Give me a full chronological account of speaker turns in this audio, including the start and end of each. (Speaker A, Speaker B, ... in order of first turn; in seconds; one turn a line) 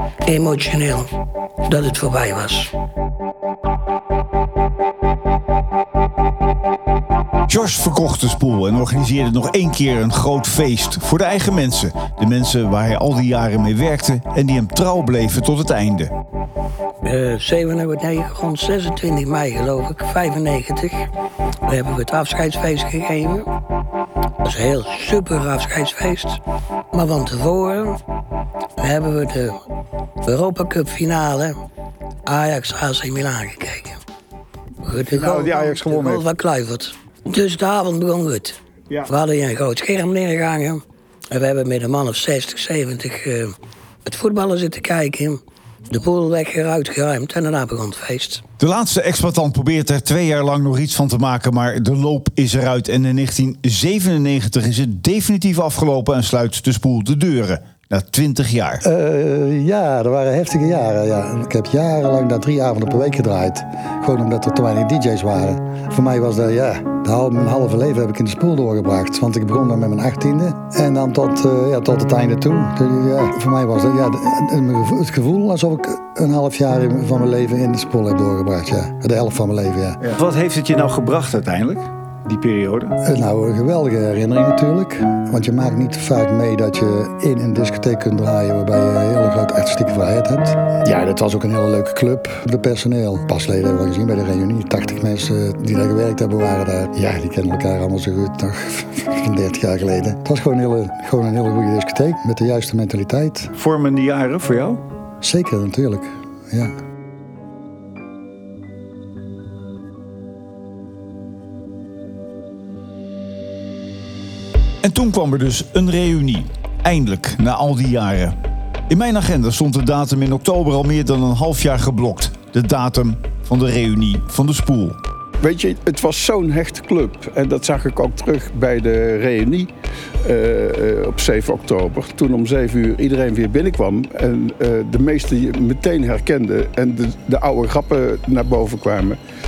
Speaker A: 0.3-1.1
Speaker A: 1.7-2.7
Speaker B: 7.5-16.1
Speaker A: 17.0-21.1
Speaker A: 21.7-23.5
Speaker A: 24.4-26.4
Speaker A: 26.9-28.0
Speaker A: 28.8-29.6
Speaker A: 30.2-31.6
Speaker A: 32.3-34.0
Speaker A: 34.8-48.4
Speaker B: 35.1-36.2
Speaker B: 48.6-58.8
Speaker C: 58.9-80.0
Speaker B: 80.0-83.0
Speaker C: 83.0-103.5
Speaker B: 103.6-104.8
Speaker C: 105.2-106.7
Speaker B: 114.8-118.3
Speaker B: 118.9-125.0
Speaker D: 125.4-129.7
Speaker D: 130.2-139.2